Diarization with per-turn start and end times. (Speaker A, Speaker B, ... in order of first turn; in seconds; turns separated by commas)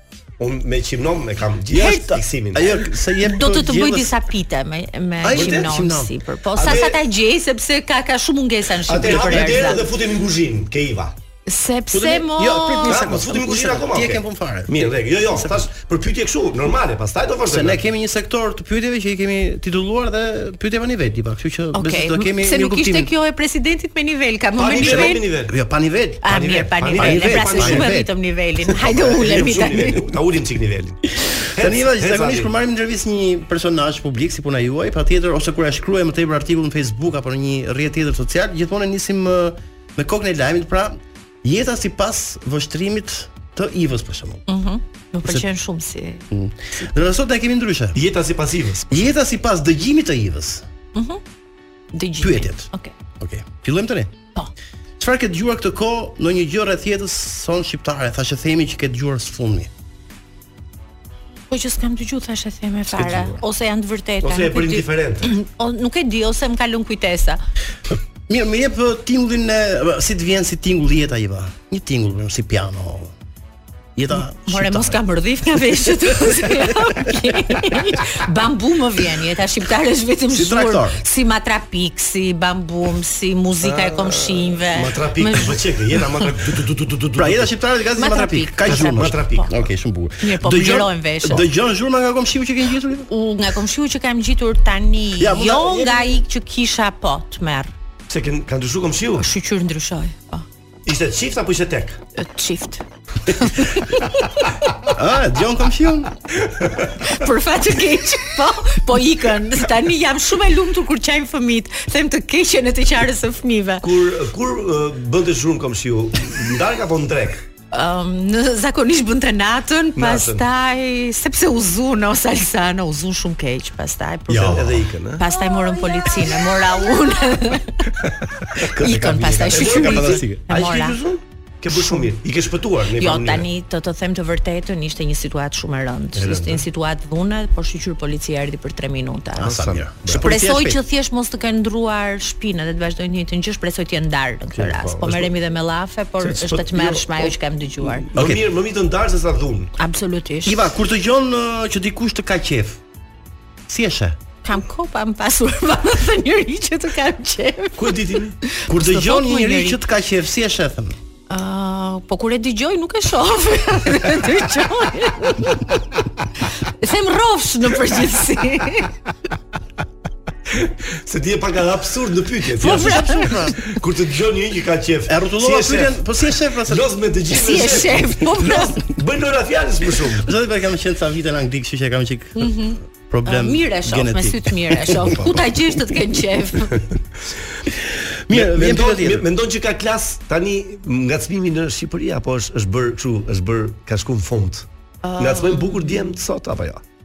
Speaker A: 0.4-2.8, Speaker B: 1.7-4.2, Speaker C: 3.2-9.9, Speaker B: 5.2-6.1, Speaker A: 5.3-5.7, Speaker A: 6.5-7.0, Speaker A: 8.8-11.2, Speaker B: 9.0-9.8, Speaker C: 11.5-13.2, Speaker B: 11.9-15.7, Speaker A: 12.9-17.8, Speaker B: 17.5-23.1, Speaker C: 21.7-25.3, Speaker A: 24.6-25.5, Speaker B: 24.8-26.3, Speaker C: 26.2-30.0, Speaker A: 26.3-27.9, Speaker B: 27.0-28.1, Speaker A: 28.8-31.0, Speaker A: 31.6-32.5, Speaker B: 31.6-44.5, Speaker C: 44.5-46.2, Speaker B: 46.3-48.0, Speaker A: 47.9-49.0, Speaker B: 48.9-50.6, Speaker C: 51.0-51.2, Speaker C: 51.9-52.9, Speaker B: 52.2-54.1, Speaker B: 55.0-59.7, Speaker C: 61.5-67.4, Speaker A: 63.0-63.3, Speaker A: 64.2-65.3, Speaker B: 68.3-73.1, Speaker B: 74.0-75.0, Speaker C: 74.5-85.6, Speaker B: 80.3-81.0, Speaker A: 83.6-87.5, Speaker B: 87.2-93.1, Speaker C: 87.9-89.5, Speaker A: 88.7-89.5, Speaker C: 90.2-91.5, Speaker C: 93.1-97.7, Speaker B: 95.2-96.2, Speaker A: 98.1-99.3, Speaker C: 99.2-100.5, Speaker A: 100.9-102.0, Speaker C: 102.2-104.7, Speaker B: 104.9-106.1, Speaker A: 106.5-106.9, Speaker C: 107.0-113.8, Speaker A: 113.8-117.4, Speaker C: 117.7-127.9, Speaker A: 120.0-120.4, Speaker B: 124.3-124.8, Speaker A: 124.3-125.3, Speaker A: 128.1-133.5, Speaker B: 128.6-130.5, Speaker C: 128.8-131.0, Speaker C: 131.7-132.1, Speaker C: 133.0-139.6, Speaker A: 136.2-136.7, Speaker A: 139.4-140.3, Speaker B: 139.4-140.8, Speaker C: 140.2-148.1, Speaker A: 144.6-145.3, Speaker A: 146.2-149.7, Speaker B: 148.2-148.4, Speaker C: 149.8-150.6, Speaker B: 150.4-152.8, Speaker B: 153.7-154.2, Speaker C: 154.4-159.8, Speaker A: 157.8-158.4, Speaker B: 158.7-161.0, Speaker C: 161.3-166.0, Speaker C: 166.7-168.9, Speaker A: 170.5-176.1, Speaker B: 172.6-173.6, Speaker C: 172.7-173.4, Speaker B: 175.1-176.8, Speaker A: 176.7-180.3, Speaker C: 177.3-178.8, Speaker B: 180.2-185.2, Speaker C: 182.4-186.8, Speaker A: 185.1-185.4, Speaker B: 188.3-189.3, Speaker A: 188.3-194.7, Speaker C: 195.0-196.1, Speaker A: 195.2-196.8